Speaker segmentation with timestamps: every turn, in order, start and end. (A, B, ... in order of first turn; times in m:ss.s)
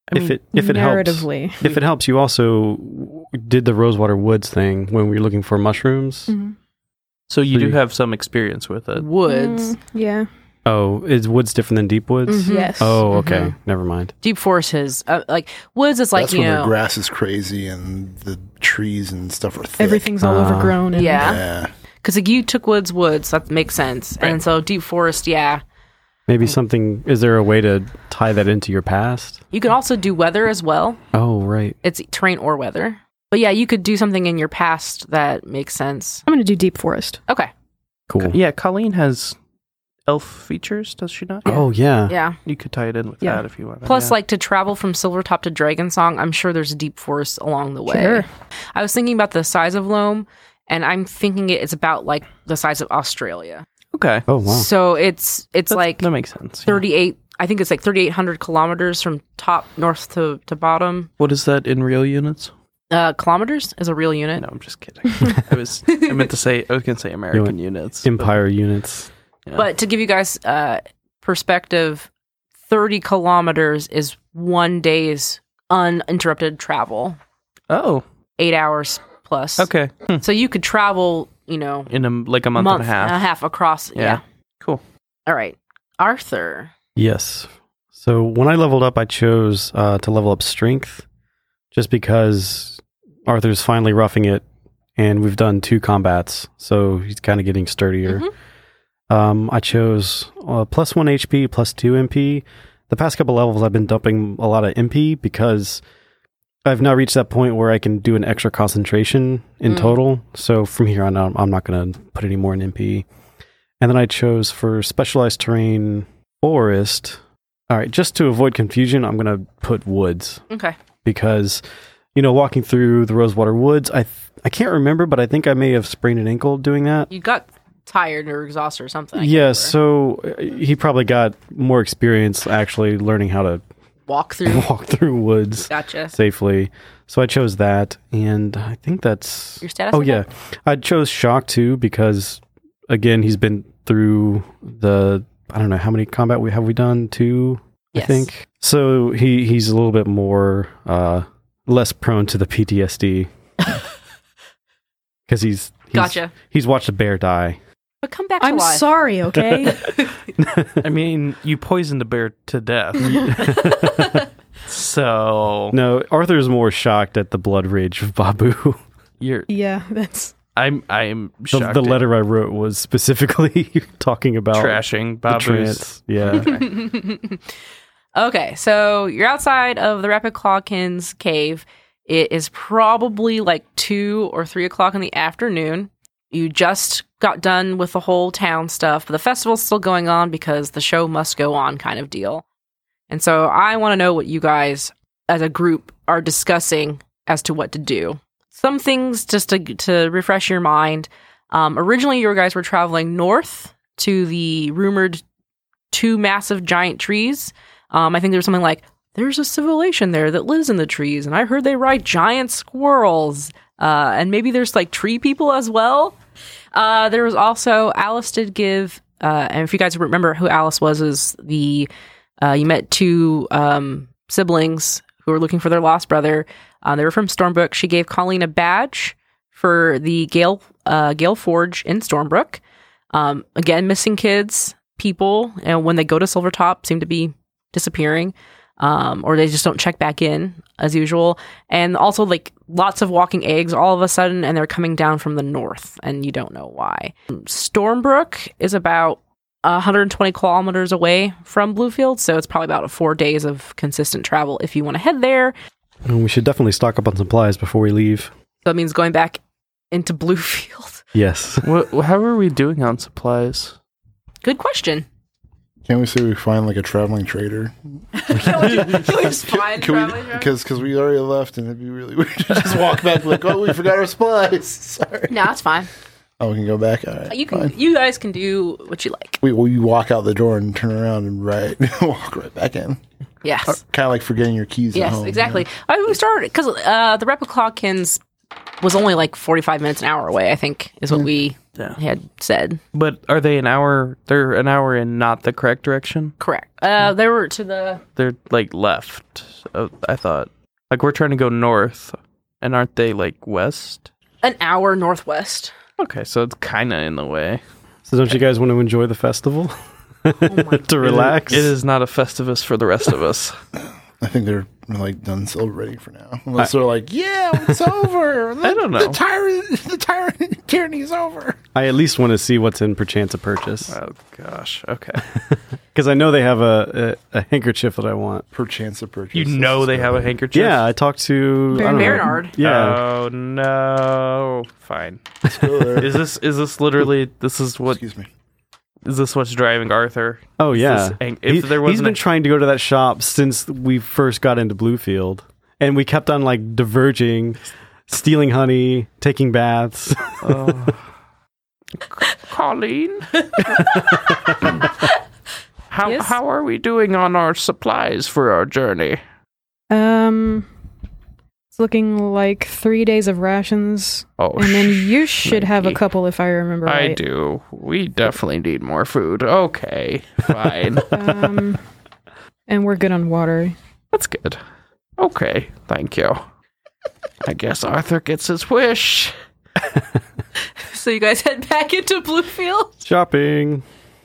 0:00.1-0:00.3 A
0:00.1-0:06.3 B
0:00.4-0:01.6 C
0:06.3-0:06.5 C
0:07.3-0:09.0 A
0:07.5-0:07.8 B
0:09.0-0:09.8 D
0:09.2-0:10.3 C
0:10.6-0:14.1 B
0:12.3-0:13.5 D
0:12.4-0:13.0 C
0:14.2-0:16.7 D
0:16.1-0:20.1 E
0:19.8-0:21.4 C
0:20.2-0:20.8 B
0:20.9-0:21.4 D
0:21.2-0:21.7 E
0:22.0-0:25.6 D
0:26.3-0:29.4 B
0:29.5-0:31.0 D
0:31.1-0:31.8 B
0:31.8-0:36.2 D
0:36.2-0:37.2 C
0:38.1-0:38.4 B
0:38.2-0:39.4 A
0:40.0-0:41.6 A
0:41.4-0:42.1 B
0:41.5-0:42.4 D
0:42.4-0:44.2 A
0:43.8-0:53.6 D
0:47.9-0:48.2 C
0:53.9-0:54.2 A
0:54.3-0:54.7 B
0:54.4-0:56.1 D
0:55.7-0:56.8 A
0:56.6-1:01.1 D
1:01.2-1:02.5 A
1:02.9-1:04.4 D
1:04.4-1:08.3 A
1:05.9-1:06.2 D
1:07.3-1:09.1 B
1:09.5-1:12.1 D
1:12.7-1:17.2 D
1:17.7-1:18.0 A
1:18.4-1:19.7 D
1:19.6-1:20.2 A
1:20.2-1:21.9 D
1:21.9-1:23.3 A
1:22.5-1:24.2 D
1:24.0-1:24.8 A
1:25.3-1:26.7 D
1:27.0-1:31.0 B
1:31.7-1:34.4 B
1:35.0-1:38.3 B
1:38.0-1:38.3 D
1:39.1-1:45.8 B
1:46.6-1:53.0 B
1:49.7-1:49.9 D
1:53.8-2:00.4 B
2:00.5-2:00.8 D
2:01.0-2:01.6 B
2:02.1-2:07.1 B
2:07.1-2:09.7 D
2:09.2-2:13.6 B
2:14.1-2:14.7 D
2:14.4-2:33.3 B
2:15.7-2:16.1 D
2:19.6-2:20.2 D
2:27.9-2:28.3 D
2:35.3-2:37.6 B
2:35.9-2:36.3 D
2:38.0-2:38.9 D
2:38.4-2:39.9 C
2:40.4-2:40.8 B
2:40.8-2:43.4 A
2:43.1-2:44.2 B
2:44.7-2:45.8 A
2:45.7-2:48.8 B
2:49.2-2:49.5 A
2:49.5-2:50.3 C
2:50.5-2:52.0 A
2:51.5-2:56.6 B
2:54.5-2:56.6 A
2:56.4-2:57.4 D
2:58.2-3:12.4 D
3:13.1-3:25.2 D
3:25.9-3:36.2 D
3:36.7-3:41.9 D
3:42.4-3:52.6 D
3:53.1-4:15.5 D
4:16.0-4:18.3 B
4:18.6-4:19.4 D
4:19.9-4:21.0 D
4:21.1-4:21.6 B
4:21.6-4:23.8 A
4:24.4-4:25.0 D
4:25.9-4:27.7 E
4:28.1-4:30.5 D
4:28.3-4:35.4 E
4:35.3-4:35.9 D
4:36.4-4:37.7 E
4:37.3-4:39.4 D
4:39.4-4:43.0 E
4:43.4-4:43.8 D
4:43.7-4:45.6 E
4:44.9-4:48.2 D
4:48.8-4:52.8 D
4:52.9-4:56.3 A
4:56.4-4:58.0 D
4:58.2-5:04.1 A
5:04.4-5:05.7 D
5:06.0-5:07.6 A
5:08.0-5:11.7 B
5:10.4-5:10.9 D
5:11.0-5:13.6 A
5:14.2-5:21.6 E
5:18.6-5:19.2 A
5:21.7-5:23.9 B
5:23.9-5:25.2 A
5:25.3-5:28.4 B
5:28.5-5:30.4 E
5:29.3-5:30.8 A
5:30.5-5:33.0 B
5:31.7-5:32.3 C
5:31.7-5:32.5 D
5:32.6-5:35.4 A
5:35.4-5:36.2 E
5:35.9-5:38.0 A
5:37.9-5:38.3 E
5:39.0-5:42.2 A
5:40.6-5:50.6 B
5:50.4-5:51.0 A
5:52.1-5:53.8 A
5:55.9-5:59.2 A
5:56.0-5:56.3 D
5:59.9-6:00.7 C
6:01.7-6:07.2 C
6:04.4-6:06.0 A
6:06.8-6:11.1 A
6:11.1-6:11.8 C
6:12.7-6:13.8 C
6:14.1-6:14.6 A
6:15.2-6:16.4 A
6:17.4-6:19.3 A
6:20.8-6:23.0 D
6:23.0-6:23.8 B